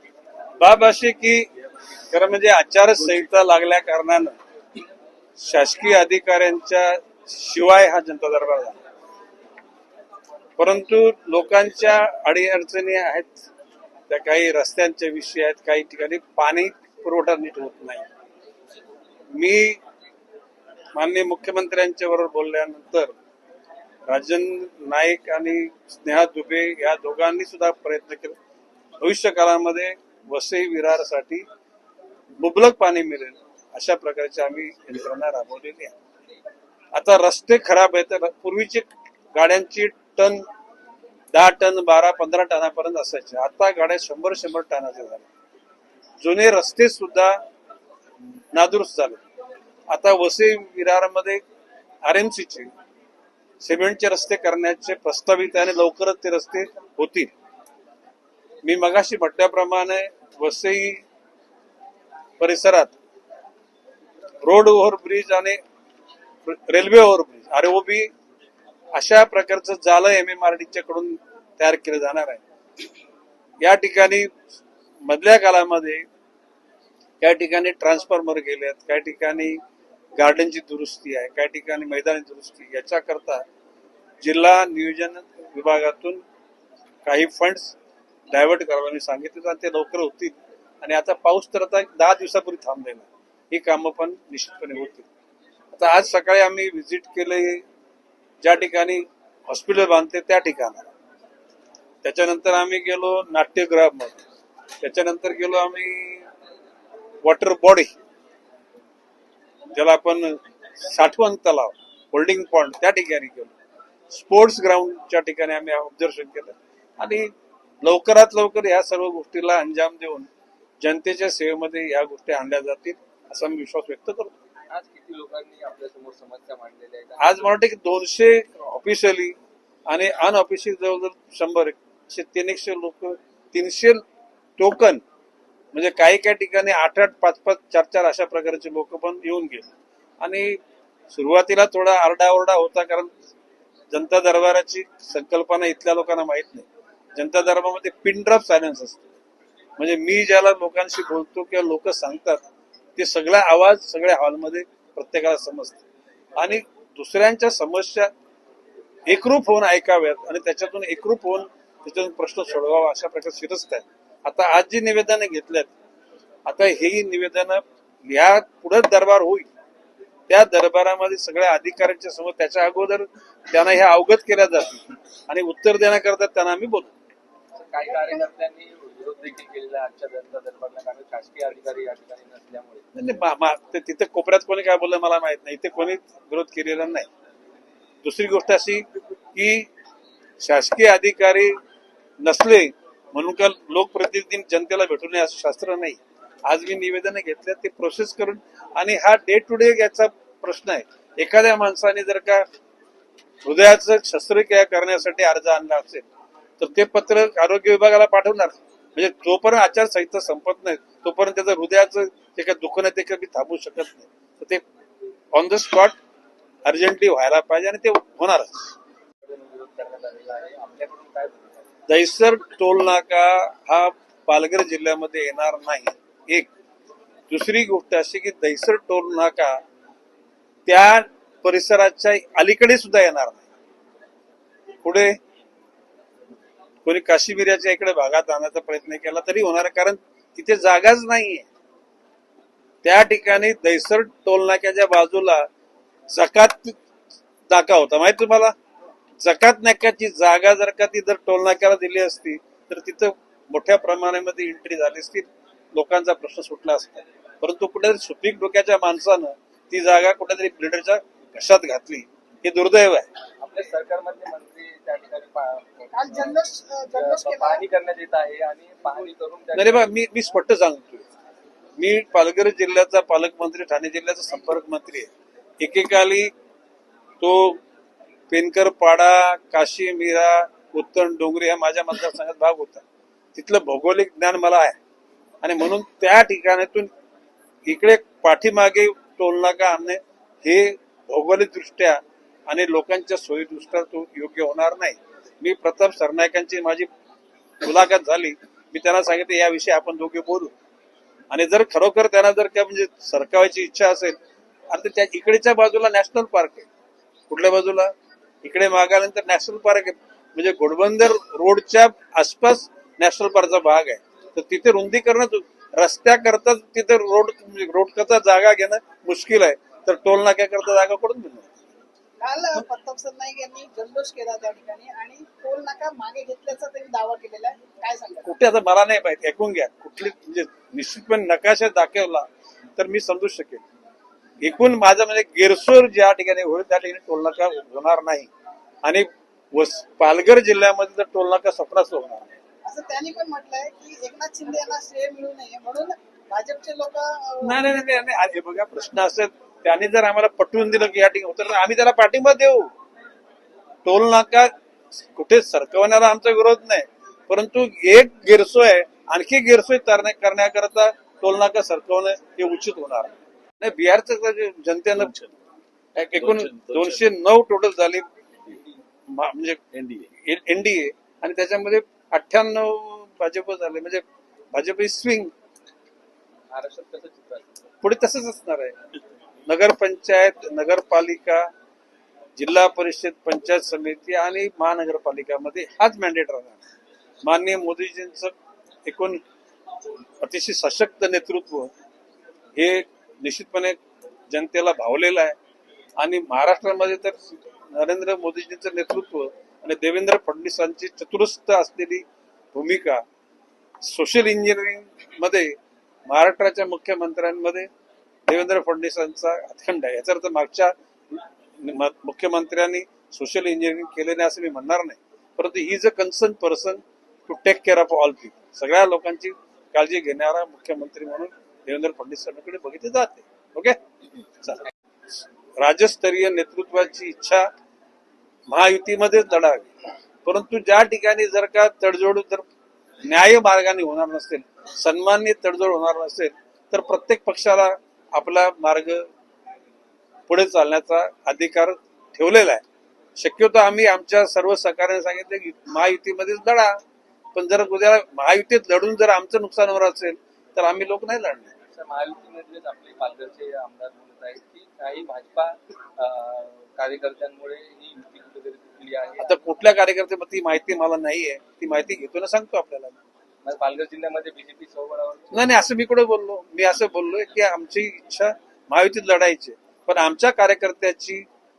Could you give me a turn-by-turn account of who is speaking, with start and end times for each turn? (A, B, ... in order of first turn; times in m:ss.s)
0:00.6-0:01.5 A
0:02.1-0:04.4 A
0:05.4-0:08.8 A
0:10.6-0:13.4 A
0:14.1-0:18.0 A
0:19.3-0:19.8 A
0:20.9-0:23.1 A
0:24.1-0:28.4 A
0:29.0-0:31.4 A
0:32.4-0:35.9 A
0:36.9-0:40.4 A
0:41.3-0:45.2 A
0:46.2-0:47.4 A
0:48.5-0:49.2 A
0:49.9-0:51.4 A
0:52.0-0:52.7 A
0:53.6-0:57.3 A
0:58.6-1:01.0 A
1:02.4-1:02.9 A
1:04.4-1:05.6 A
1:06.4-1:08.1 A
1:08.9-1:12.4 A
1:13.6-1:14.3 A
1:15.0-1:16.0 A
1:17.2-1:19.6 A
1:20.2-1:23.4 A
1:24.2-1:26.2 A
1:27.0-1:27.8 A
1:28.3-1:35.1 A
1:35.7-1:37.6 A
1:38.4-1:40.9 A
1:42.0-1:44.2 A
1:44.8-1:46.3 A
1:47.2-1:47.9 A
1:49.7-1:53.5 A
1:54.1-1:57.3 A
1:57.8-2:00.3 A
2:00.8-2:04.3 A
2:04.7-2:07.5 B
2:07.2-2:09.4 A
2:09.9-2:14.0 A
2:14.6-2:15.0 A
2:15.7-2:19.7 A
2:20.2-2:20.6 A
2:21.1-2:23.1 A
2:23.9-2:29.1 A
2:29.8-2:32.4 A
2:33.0-2:35.8 A
2:36.4-2:38.1 A
2:39.1-2:45.7 A
2:46.4-2:49.5 A
2:50.3-2:56.9 A
2:57.5-3:02.8 B
2:57.8-2:58.2 C
3:02.9-3:07.1 A
3:08.0-3:09.7 A
3:10.4-3:11.5 A
3:12.2-3:22.4 A
3:23.4-3:26.1 A
3:26.6-3:34.6 A
3:35.3-3:36.0 A
3:36.6-3:38.7 A
3:39.2-3:41.7 B
3:41.9-3:46.5 A
3:47.3-3:49.6 A
3:50.6-3:53.4 A
3:54.8-3:55.2 A
3:56.8-4:01.5 A
4:02.8-4:05.5 A
4:06.1-4:06.8 A
4:07.5-4:08.5 A
4:09.2-4:23.1 A
4:23.4-4:26.4 B
4:25.9-4:27.6 C
4:26.9-4:29.9 B
4:29.5-4:31.0 A
4:31.8-4:36.3 A
4:37.2-4:37.6 A
4:38.3-4:42.8 A
4:43.3-4:44.8 A
4:45.4-4:46.9 A
4:47.6-4:56.9 A
4:57.6-5:00.5 A
5:01.3-5:04.2 A
5:04.7-5:06.7 A
5:07.3-5:07.9 A
5:08.4-5:21.6 A
5:22.2-5:28.3 C
5:28.2-5:33.6 A
5:34.4-5:38.3 A
5:38.8-5:42.3 A
5:42.6-5:47.6 C
5:47.4-5:52.7 A
5:53.8-6:05.2 A
6:05.9-6:08.0 A
6:09.1-6:15.3 A
6:16.5-6:17.6 B
6:17.8-6:18.8 A
6:19.4-6:21.5 A
6:22.4-6:26.6 A
6:27.2-6:28.3 A
6:28.8-6:29.2 A
6:30.2-6:31.7 A
6:32.6-6:33.8 A
6:34.3-6:35.4 A
6:36.0-6:43.0 A
6:43.8-6:45.5 A
6:46.1-6:47.7 A
6:48.3-7:03.8 A
7:05.6-7:07.5 A
7:08.5-7:09.7 A
7:10.2-7:12.4 A
7:13.0-7:19.1 A
7:20.3-7:22.6 A
7:23.2-7:26.8 A
7:27.3-7:31.5 A
7:31.7-7:39.5 B
7:39.2-7:43.0 A
7:43.4-7:45.4 B
7:45.3-7:51.2 A